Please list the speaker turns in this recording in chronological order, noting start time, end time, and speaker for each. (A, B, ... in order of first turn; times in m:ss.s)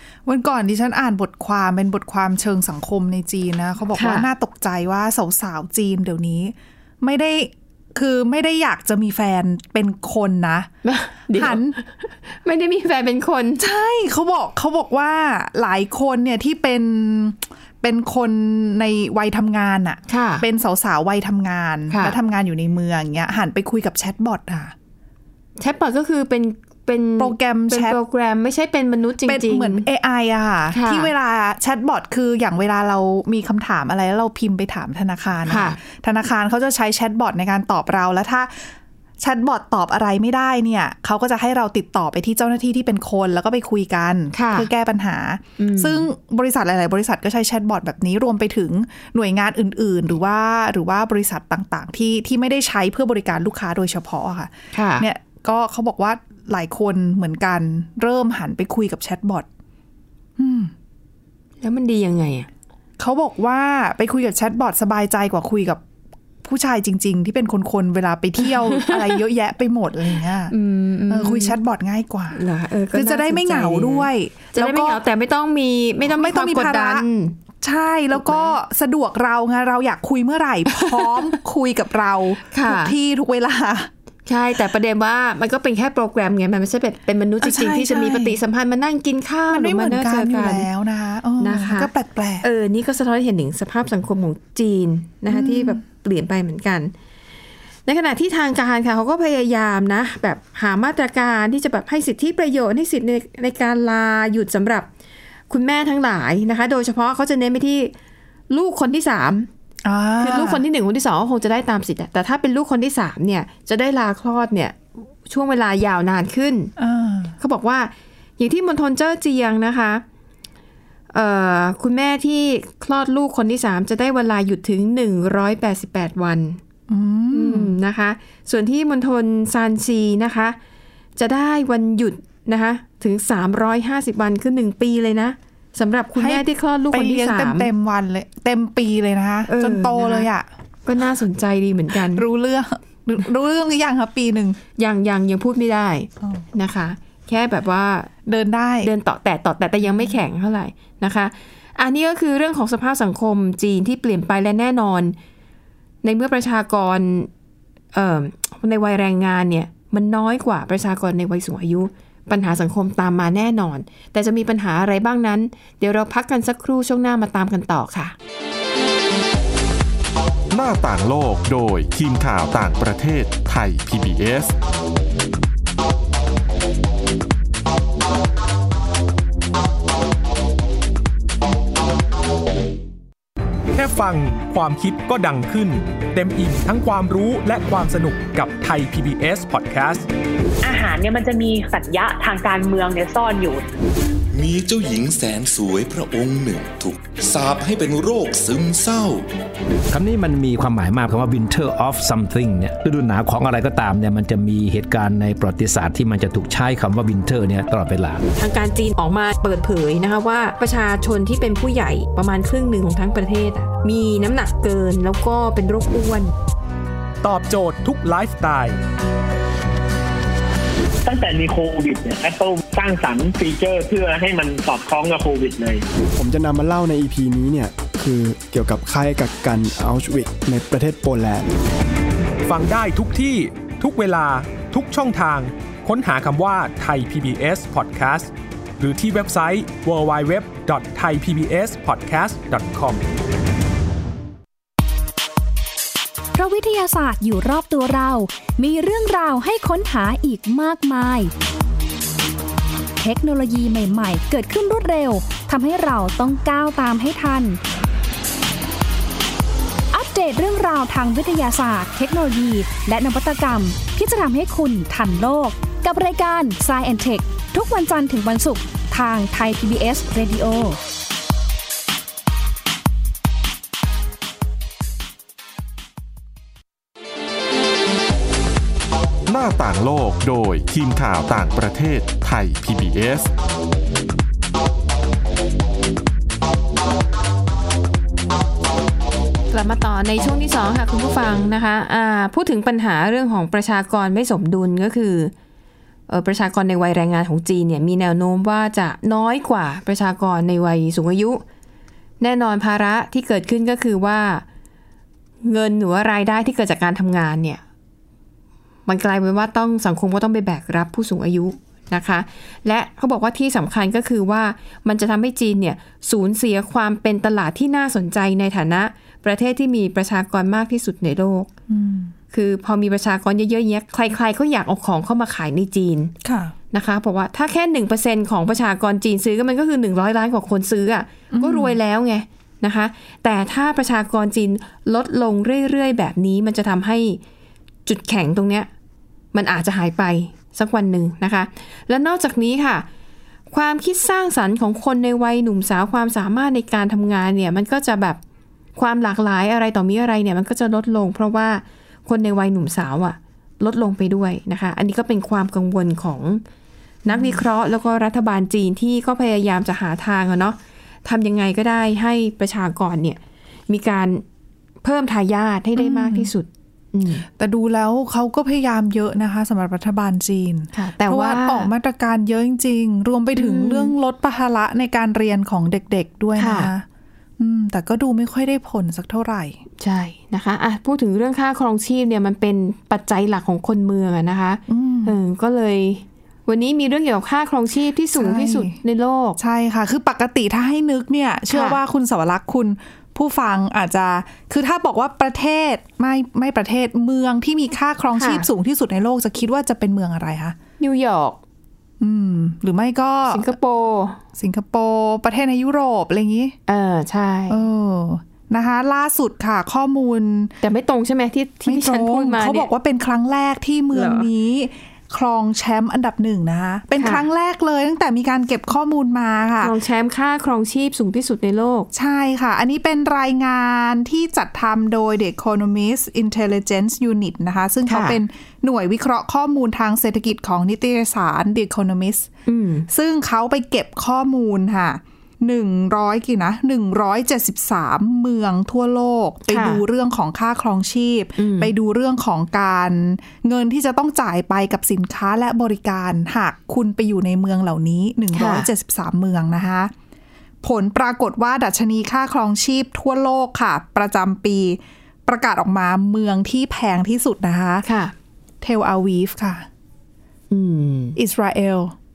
0:00.2-0:10.7 A
0:03.9-0:04.3 B
0:10.8-0:13.6 B
0:11.3-0:11.8 A
0:13.6-0:24.7 A
0:20.1-0:20.4 B
0:21.9-0:22.2 B
0:25.6-0:29.9 B
0:27.2-0:28.0 A
0:29.2-0:59.5 A
0:30.7-0:31.1 B
0:35.4-0:35.8 B
0:44.3-0:44.7 B
0:45.6-0:46.0 B
0:54.7-0:55.1 B
1:00.4-1:00.7 A
1:01.6-1:02.5 B
1:03.0-1:05.8 A
1:06.4-1:10.5 A
1:08.4-1:09.2 B
1:10.5-1:11.6 B
1:11.1-1:12.4 A
1:12.3-1:17.4 B
1:12.9-1:15.0 A
1:16.1-1:17.0 A
1:17.6-1:23.9 A
1:18.1-1:18.6 B
1:20.7-1:21.3 B
1:22.5-1:22.9 B
1:24.2-1:30.7 B
1:27.4-1:28.4 A
1:29.5-1:32.5 A
1:31.4-1:31.9 B
1:32.4-1:36.9 B
1:35.3-1:35.8 A
1:37.8-1:44.9 B
1:45.5-1:47.9 B
1:48.5-1:49.5 B
1:49.8-1:50.6 A
1:50.2-1:56.7 B
1:56.8-1:57.3 A
1:57.4-2:00.0 B
2:01.1-2:06.6 B
2:06.9-2:07.8 A
2:07.3-2:10.6 B
2:11.2-2:17.7 B
2:16.2-2:20.5 A
2:19.4-2:20.3 B
2:20.8-2:22.2 B
2:22.0-2:24.6 A
2:24.8-2:28.1 B
2:28.2-2:28.9 A
2:28.8-2:35.2 B
2:29.8-2:30.1 A
2:36.0-2:37.3 B
2:37.9-2:48.1 B
2:50.5-2:54.5 C
3:03.7-3:10.1 D
3:10.6-3:13.6 E
3:14.3-3:19.3 F
3:19.9-3:28.2 G
3:28.4-3:36.3 B
3:37.2-3:38.8 D
3:41.0-3:45.8 H
3:46.1-3:51.5 I
3:52.4-4:03.0 D
4:06.3-4:11.3 J
4:13.0-4:17.6 J
4:19.9-4:30.8 J
4:39.3-4:43.3 C
4:49.5-4:55.3 B
4:56.1-5:01.4 B
5:02.2-5:04.4 B
5:05.4-5:07.6 B
5:08.9-5:21.5 B
5:21.7-5:22.1 A
5:22.3-5:26.1 B
5:26.2-5:26.5 A
5:26.7-5:37.2 B
5:31.3-5:31.8 A
5:37.8-5:38.7 B
5:39.3-5:42.8 B
5:43.5-5:48.2 B
5:48.8-5:56.4 B
5:57.0-6:04.2 B
5:57.1-5:57.4 A
6:04.8-6:07.2 B
6:05.8-6:06.3 A
6:07.3-6:16.8 A
6:10.7-6:11.7 B
6:13.3-6:13.9 B
6:16.4-6:16.7 B
6:17.4-6:19.6 A
6:19.8-6:29.4 B
6:24.7-6:25.2 A
6:28.1-6:28.8 A
6:29.4-6:40.6 A
6:31.5-6:31.8 B
6:38.2-6:38.4 B
6:40.8-6:41.4 B
6:42.0-6:43.5 A
6:43.3-6:44.2 B
6:44.4-6:46.6 A
6:46.7-6:47.6 B
6:47.5-6:50.5 A
6:50.6-6:52.7 B
6:51.6-6:59.7 A
6:53.9-6:54.3 B
6:57.0-6:57.2 B
6:59.6-7:01.9 B
7:01.9-7:12.3 A
7:07.8-7:08.2 B
7:12.4-7:12.9 B
7:12.9-7:29.9 A
7:19.5-7:19.8 B
7:21.4-7:21.7 B
7:28.3-7:28.7 B
7:30.6-7:37.8 A
7:37.8-7:38.1 B
7:38.6-7:39.7 A
7:40.5-7:41.2 B
7:41.2-7:41.9 A